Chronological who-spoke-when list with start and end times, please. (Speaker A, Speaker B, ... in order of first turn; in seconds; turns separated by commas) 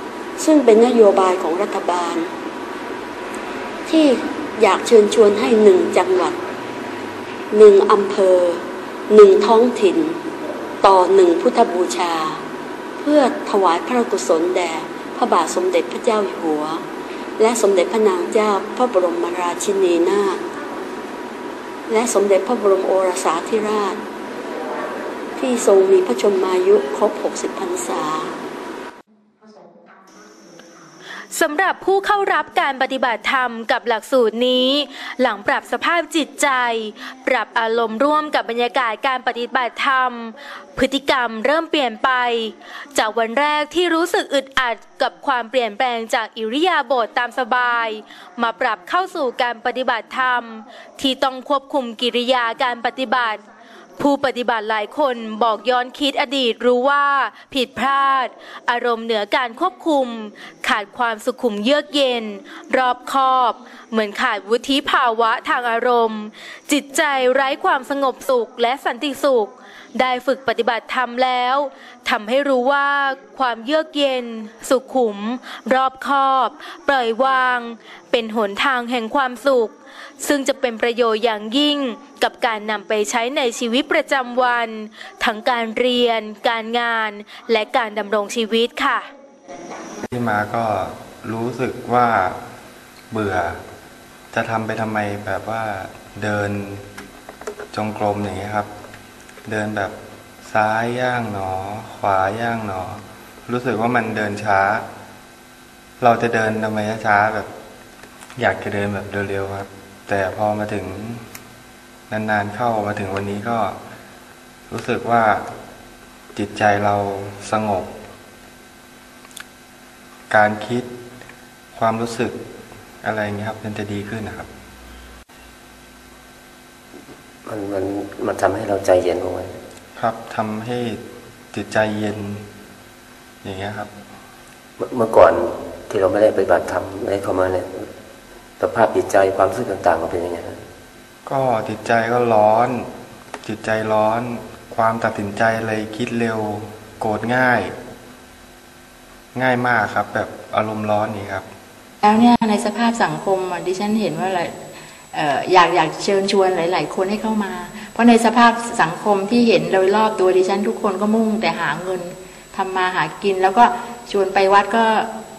Speaker A: 0.4-2.3, Speaker A: 3.9-6.4, Speaker A: 7.5-10.2, Speaker A: 10.8-12.4, Speaker A: 13.0-16.8, Speaker A: 17.4-20.4, Speaker A: 21.9-24.0, Speaker A: 25.4-28.4, Speaker B: 31.3-53.4, Speaker B: 54.0-89.1, Speaker C: 90.1-92.4, Speaker C: 93.1-93.6, Speaker C: 94.3-96.8, Speaker C: 97.7-98.7, Speaker C: 99.5-104.9, Speaker C: 106.0-107.5, Speaker C: 108.4-111.3, Speaker C: 112.1-113.8, Speaker C: 114.7-115.5, Speaker C: 116.3-117.9, Speaker C: 120.3-120.9, Speaker C: 121.8-122.4, Speaker C: 123.0-124.5, Speaker D: 127.5-129.6, Speaker C: 130.0-131.0, Speaker C: 131.5-132.5, Speaker C: 133.4-133.9, Speaker D: 134.8-137.9, Speaker D: 138.6-140.6, Speaker C: 141.3-142.9, Speaker C: 143.4-147.7, Speaker C: 149.3-151.5, Speaker E: 152.0-154.6, Speaker E: 155.1-165.1